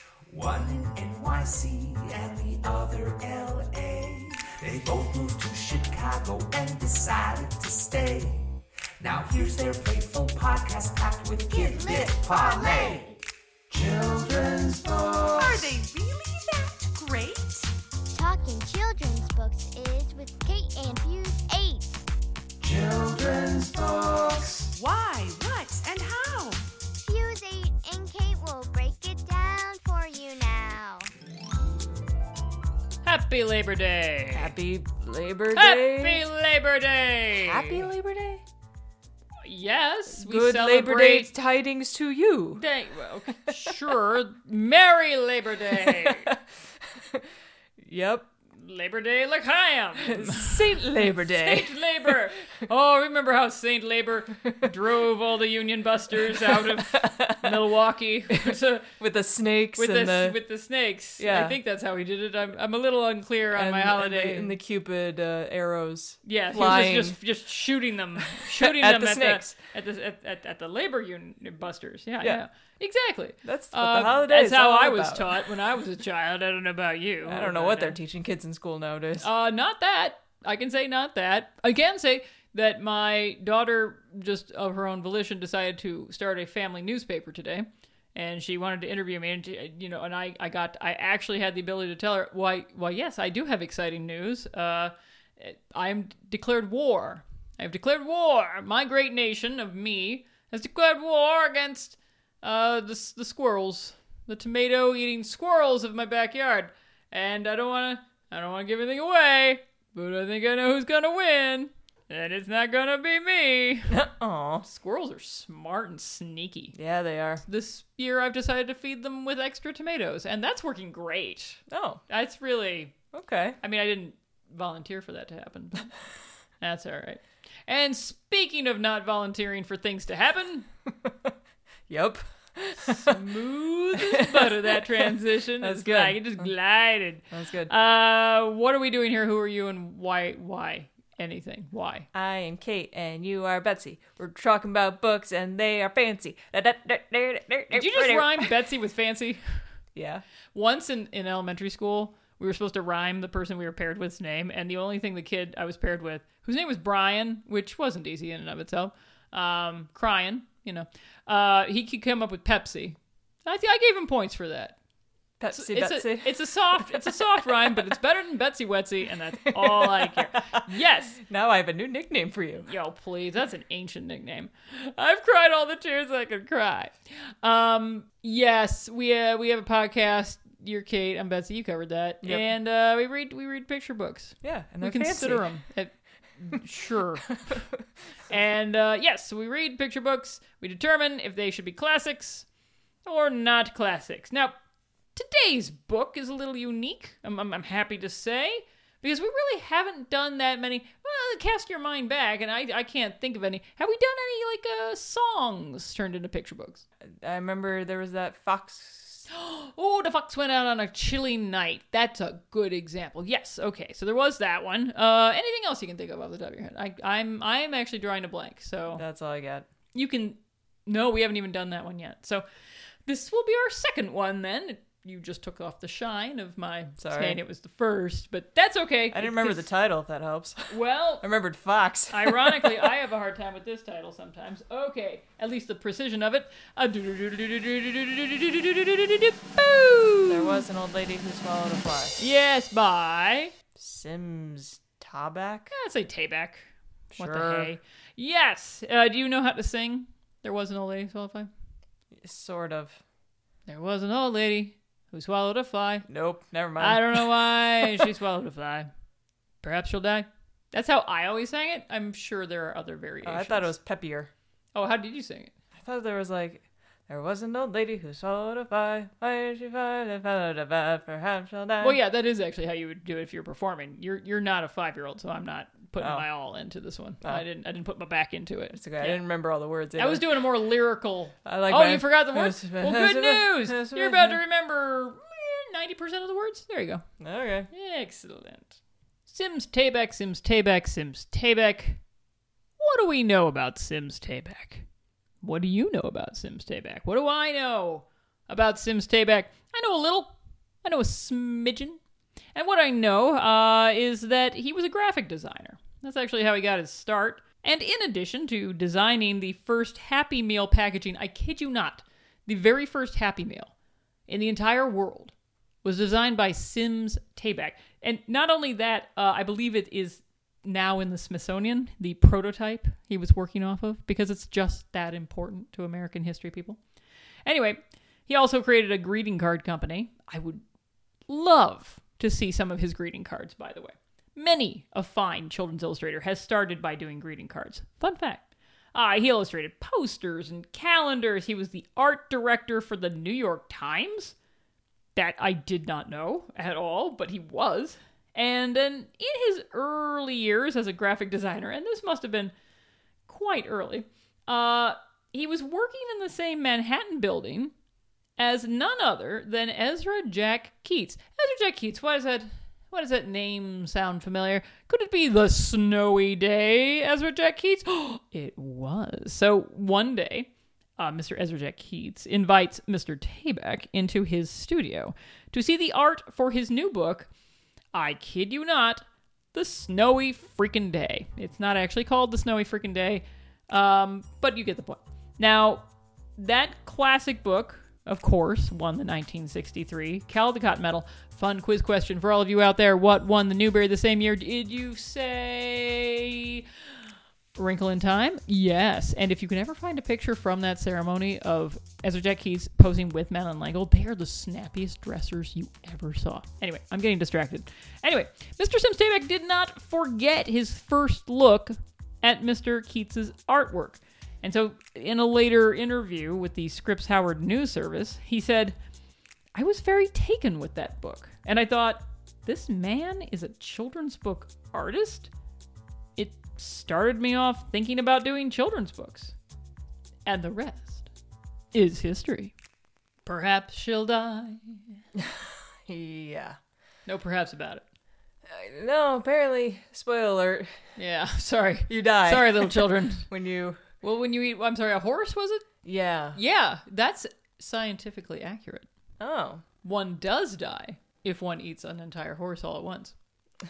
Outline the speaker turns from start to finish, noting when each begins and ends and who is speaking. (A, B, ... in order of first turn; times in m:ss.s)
0:00.3-0:13.2 A
0:11.5-0:13.2 B
0:13.7-0:15.7 A
0:15.4-0:17.7 C
0:18.1-0:22.0 B
0:22.6-0:24.7 A
0:24.7-0:26.6 C
0:27.0-0:31.1 B
0:33.0-0:34.5 D
0:34.3-0:36.2 E
0:35.5-0:37.8 D
0:37.4-0:38.4 E
0:39.4-0:41.3 D
0:40.1-0:42.6 E
0:42.6-0:46.3 D
0:43.5-0:43.7 E
0:45.7-0:47.2 E
0:47.8-0:48.3 E
0:48.5-0:58.9 D
0:50.0-0:52.2 E
0:56.4-0:57.7 E
0:58.3-1:00.4 E
0:59.8-1:04.5 D
1:01.2-1:01.6 E
1:03.5-1:07.2 E
1:06.2-1:18.0 D
1:08.3-1:09.6 E
1:13.4-1:15.5 E
1:17.2-1:19.3 E
1:19.2-1:54.0 D
1:53.9-1:54.6 E
1:54.6-1:56.7 D
1:56.7-1:57.4 E
1:57.4-2:03.0 D
2:01.7-2:02.0 E
2:03.1-2:03.6 E
2:03.6-2:05.9 D
2:06.6-2:10.7 D
2:10.9-2:11.3 E
2:11.9-2:13.3 E
2:12.8-2:22.1 D
2:13.9-2:16.5 E
2:17.3-2:17.7 E
2:22.1-2:28.5 E
2:27.7-2:29.6 D
2:29.9-2:30.2 E
2:30.5-2:44.8 D
2:45.4-2:47.8 E
2:45.5-2:51.2 D
2:49.4-2:52.7 E
2:52.6-3:07.6 D
3:02.2-3:02.5 E
3:04.4-3:05.5 E
3:07.3-3:07.8 E
3:08.3-3:12.4 D
3:13.0-3:14.5 D
3:15.1-3:26.8 D
3:27.2-3:29.2 E
3:29.3-3:39.0 D
3:38.9-3:39.7 E
3:39.9-3:42.4 D
3:43.0-3:49.7 D
3:47.0-3:47.4 E
3:49.1-3:52.9 E
3:50.7-3:51.2 D
3:52.1-4:00.6 D
4:00.3-4:02.2 E
4:02.2-4:03.5 D
4:03.7-4:05.7 E
4:05.7-4:11.5 D
4:07.1-4:07.7 E
4:12.1-4:13.0 E
4:13.7-4:16.1 D
4:16.1-4:17.3 E
4:16.8-4:18.9 D
4:17.8-4:18.1 E
4:19.6-4:23.7 D
4:23.2-4:24.3 E
4:24.7-4:25.5 D
4:25.7-4:32.0 E
4:31.8-4:39.2 D
4:36.0-4:36.2 E
4:38.7-4:40.4 E
4:40.0-4:47.0 D
4:41.4-4:44.4 E
4:47.2-4:47.7 E
4:47.7-4:52.0 D
4:52.8-4:54.8 D
4:55.4-5:02.0 D
5:02.5-5:13.7 D
5:14.3-5:26.8 D
5:27.4-5:30.6 D
5:31.3-5:44.3 D
5:45.2-5:52.5 D
5:53.3-5:57.7 D
5:58.4-6:17.3 D
6:17.9-6:25.8 D
6:26.4-6:36.6 D
6:37.6-6:58.8 D
6:59.5-7:05.3 D
7:06.2-7:09.3 D
7:10.2-7:11.1 D
7:11.7-7:12.5 D
7:13.2-7:14.8 D
7:15.1-7:16.6 E
7:17.0-7:17.8 D
7:18.4-7:20.8 E
7:21.0-7:23.3 D
7:21.9-7:23.9 E
7:24.0-7:25.7 D
7:25.8-7:26.4 E
7:26.3-7:28.9 D
7:29.2-7:29.6 E
7:29.8-7:33.1 D